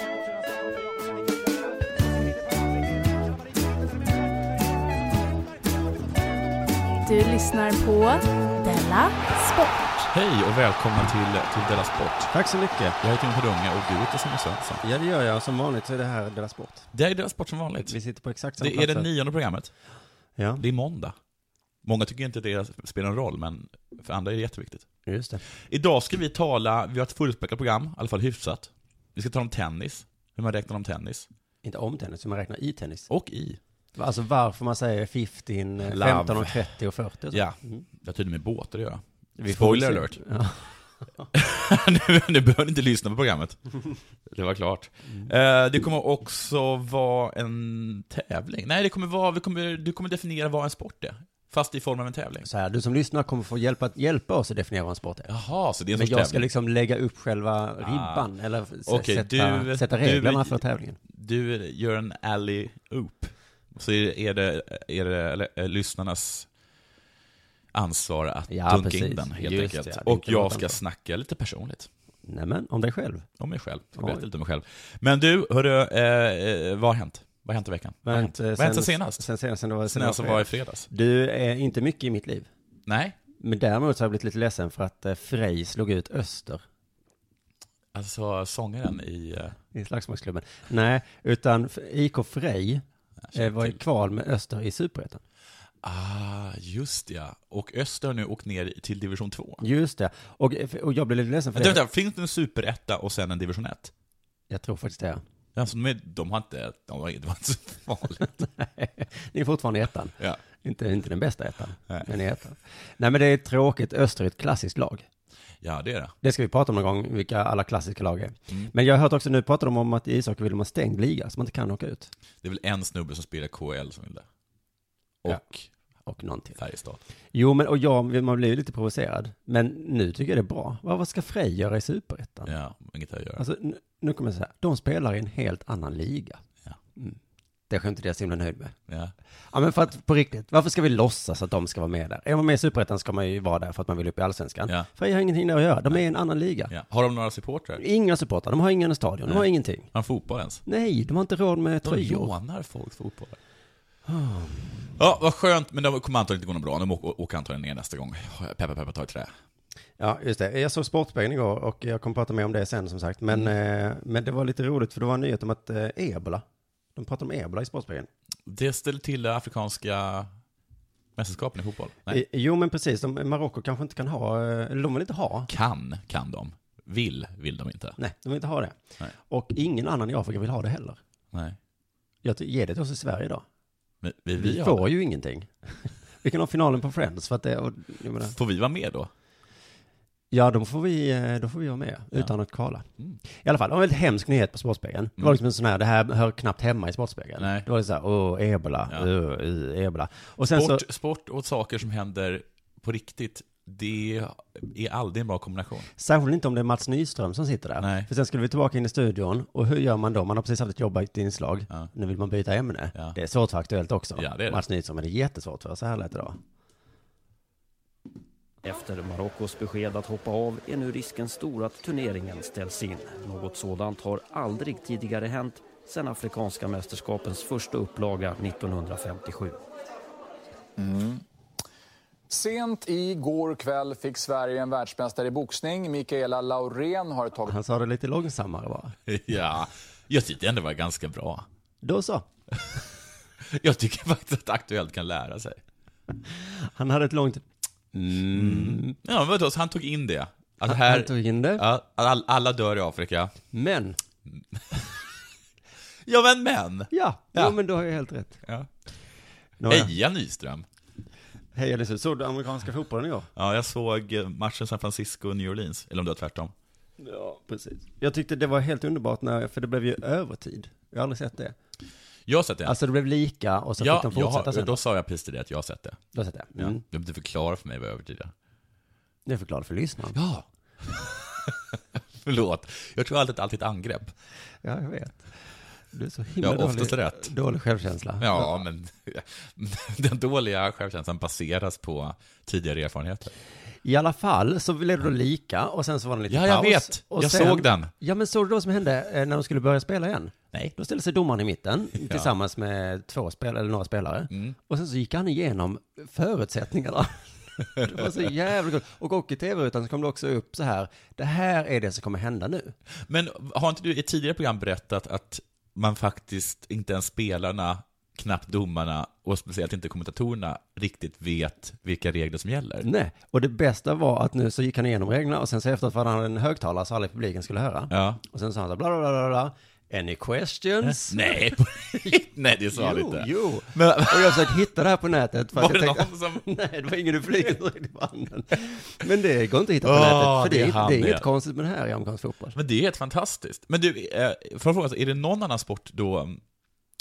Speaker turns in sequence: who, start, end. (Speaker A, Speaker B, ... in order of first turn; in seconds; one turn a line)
Speaker A: 7.0-10.1
Speaker B: 10.1-12.3
Speaker C: 12.3-13.0
Speaker B: 13.0-14.8
Speaker C: 14.8-16.9
Speaker B: 16.9-18.0
Speaker C: 17.7-19.1
Speaker B: 18.6-19.7
Speaker C: 20.4-20.6
Speaker B: 20.6-21.1
Speaker B: 21.8-24.9
Speaker C: 25.1-25.4
Speaker B: 25.6-31.3
Speaker C: 31.6-33.1
Speaker B: 33.1-33.6
Speaker C: 34.0-37.9
Speaker B: 35.9-36.7
Speaker B: 37.3-40.2
Speaker C: 39.4-40.7
Speaker B: 41.3-43.6
Speaker B: 44.3-52.5
Speaker C: 52.5-55.3
Speaker B: 55.3-56.5
Speaker C: 55.9-61.0
Speaker B: 57.8-58.3
Speaker B: 58.9-66.5
Speaker B: 67.7-71.9
Speaker C: 68.5-70.8
Speaker C: 72.3-73.3
Speaker B: 73.4-79.2
Speaker C: 74.0-74.2
Speaker C: 78.1-82.5
Speaker B: 79.9-80.9
Speaker B: 82.9-83.2
Speaker C: 83.4-86.6
Speaker B: 87.9-89.6
Speaker C: 89.7-92.8
Speaker B: 93.2-93.8
Speaker C: 93.3-95.2
Speaker B: 95.8-99.6
Speaker C: 99.6-101.8
Speaker B: 101.6-103.9
Speaker C: 104.5-105.2
Speaker B: 105.5-108.3
Speaker C: 108.4-115.1
Speaker B: 115.6-116.2
Speaker C: 116.2-122.1
Speaker B: 122.4-124.3
Speaker B: 125.2-125.7
Speaker C: 126.0-126.6
Speaker B: 126.6-127.0
Speaker C: 127.3-132.5
Speaker B: 132.5-133.4
Speaker C: 133.4-136.4
Speaker C: 137.7-138.8
Speaker B: 138.9-139.1
Speaker C: 139.5-146.7
Speaker B: 146.7-147.8
Speaker C: 147.8-149.9
Speaker B: 149.3-150.6
Speaker C: 150.7-152.3
Speaker B: 151.8-153.4
Speaker C: 154.1-154.9
Speaker B: 155.0-159.3
Speaker C: 160.0-166.4
Speaker C: 166.9-168.1
Speaker B: 168.5-170.3
Speaker B: 171.2-172.2
Speaker C: 172.1-175.5
Speaker B: 175.5-178.0
Speaker C: 178.0-181.0
Speaker B: 181.3-181.6
Speaker C: 182.2-183.4
Speaker B: 184.0-184.9
Speaker C: 184.4-188.3
Speaker B: 188.2-189.1
Speaker C: 190.3-200.9
Speaker B: 197.4-197.7
Speaker B: 200.5-205.9
Speaker C: 206.0-216.4
Speaker B: 207.8-208.1
Speaker B: 214.2-214.6
Speaker D: 218.6-229.6
Speaker E: 230.8-231.2
Speaker E: 232.3-237.6
Speaker C: 237.5-239.0
Speaker B: 239.1-241.5
Speaker C: 241.8-242.3
Speaker B: 243.4-245.6
Speaker C: 246.3-249.0
Speaker B: 248.3-253.3
Speaker C: 250.7-251.6
Speaker C: 253.5-254.0
Speaker B: 254.3-255.1
Speaker B: 256.1-257.6
Speaker C: 256.9-258.4
Speaker C: 259.6-259.9
Speaker B: 259.7-260.7
Speaker C: 261.6-263.3
Speaker B: 263.4-266.5
Speaker C: 267.0-271.6
Speaker B: 272.3-272.8
Speaker C: 272.6-274.8
Speaker B: 273.8-276.0
Speaker C: 276.1-276.8
Speaker B: 276.6-278.3
Speaker C: 279.3-280.2
Speaker B: 280.1-284.1
Speaker C: 284.6-285.4
Speaker C: 285.9-288.6
Speaker B: 286.4-287.3
Speaker B: 288.2-293.3
Speaker C: 293.9-312.8
Speaker B: 296.3-297.9
Speaker B: 302.1-302.3
Speaker B: 304.3-304.6
Speaker B: 313.0-322.9
Speaker C: 322.8-332.2
Speaker B: 327.9-328.2
Speaker B: 330.9-334.6
Speaker C: 332.7-342.6
Speaker B: 335.5-336.4
Speaker B: 339.8-341.3
Speaker B: 342.6-346.4